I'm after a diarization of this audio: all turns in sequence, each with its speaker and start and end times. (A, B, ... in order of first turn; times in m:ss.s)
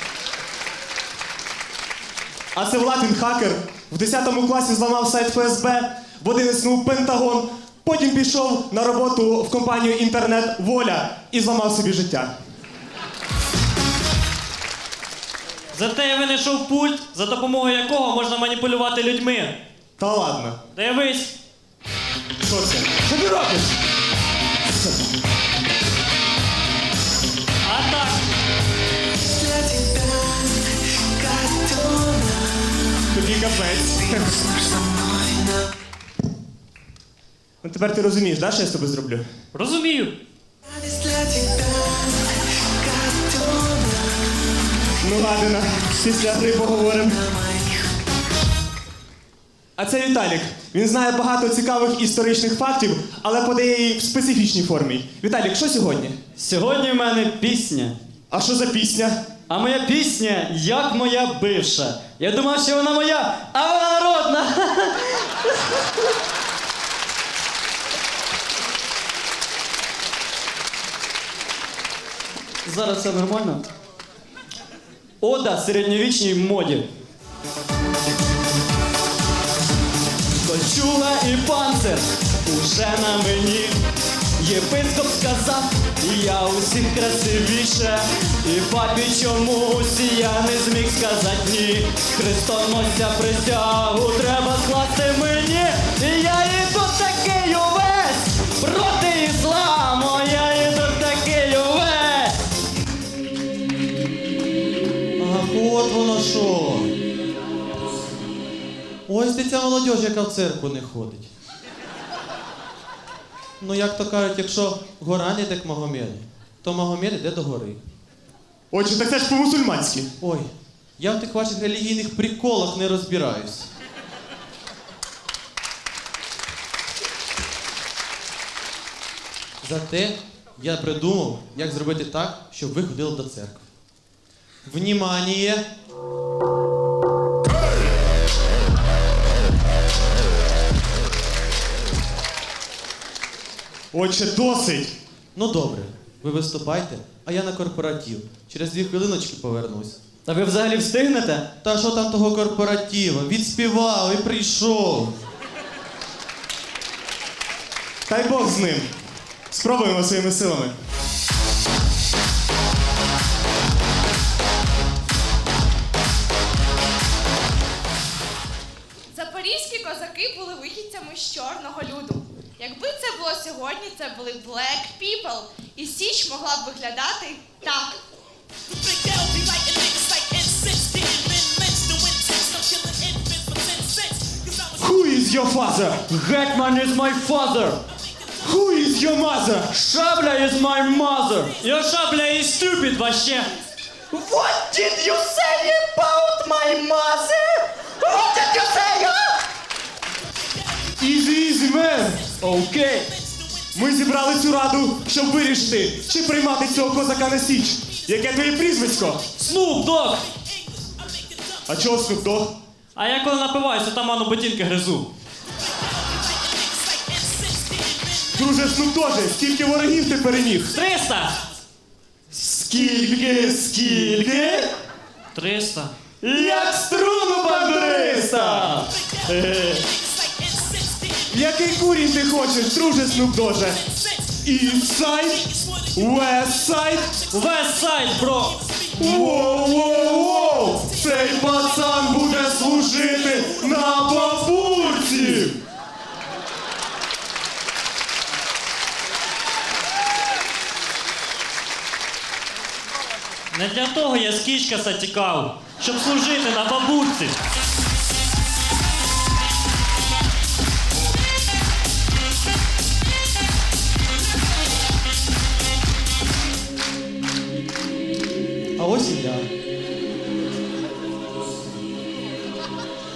0:02.5-0:12.3 A
0:15.7-0:19.6 B
0:20.0-0:20.6 A
0:20.7-0:21.3 B
0:22.4-0:23.7 A
0:27.6-0:28.2 B
0:33.1-0:34.5 A
0:37.6-0:39.2 A
0:39.5-0:40.1 B
0:45.0-0:47.3 A
0:49.8-0:56.2 A
0:56.4-0:58.0 C
0:58.3-0:59.2 A
0:59.5-1:05.1 C
1:12.6-1:13.6 C
1:15.2-1:16.9 C
1:20.4-1:23.8 C
1:24.4-1:42.4 C
1:45.2-1:46.9 D
1:49.1-1:51.3 D
1:53.6-1:57.8 D
1:58.7-2:00.1 A
2:00.2-2:03.7 D
2:09.6-2:13.6 D
2:14.6-2:15.6 D
2:23.9-2:24.9 A
2:25.3-2:30.0 D
2:30.2-2:31.4 C
2:31.6-2:35.2 D
2:38.1-2:38.9 A
2:39.5-2:40.7 A
2:49.1-2:57.9 E
3:04.8-3:05.8 A
3:05.6-3:07.8 C
3:08.4-3:09.6 A
3:09.6-3:11.5 C
3:11.6-3:13.5 B
3:14.1-3:17.6 C
3:18.1-3:19.2 C
3:21.0-3:22.2 A
3:22.4-3:23.1 C
3:23.7-3:29.2 A
3:29.4-3:30.2 B
3:31.7-3:32.5 A
3:33.0-3:35.1 B
3:38.3-3:40.7 A
3:40.7-3:41.4 B
3:42.3-3:44.7 C
3:43.1-3:44.7 A
3:45.3-3:45.9 B
3:46.2-3:48.9 C
3:46.4-3:48.6 A
3:51.3-3:53.8 A
3:54.4-3:57.2 A
3:57.3-3:58.6 B
3:59.0-4:05.6 A
4:13.5-4:17.4 B
4:28.8-4:29.5 D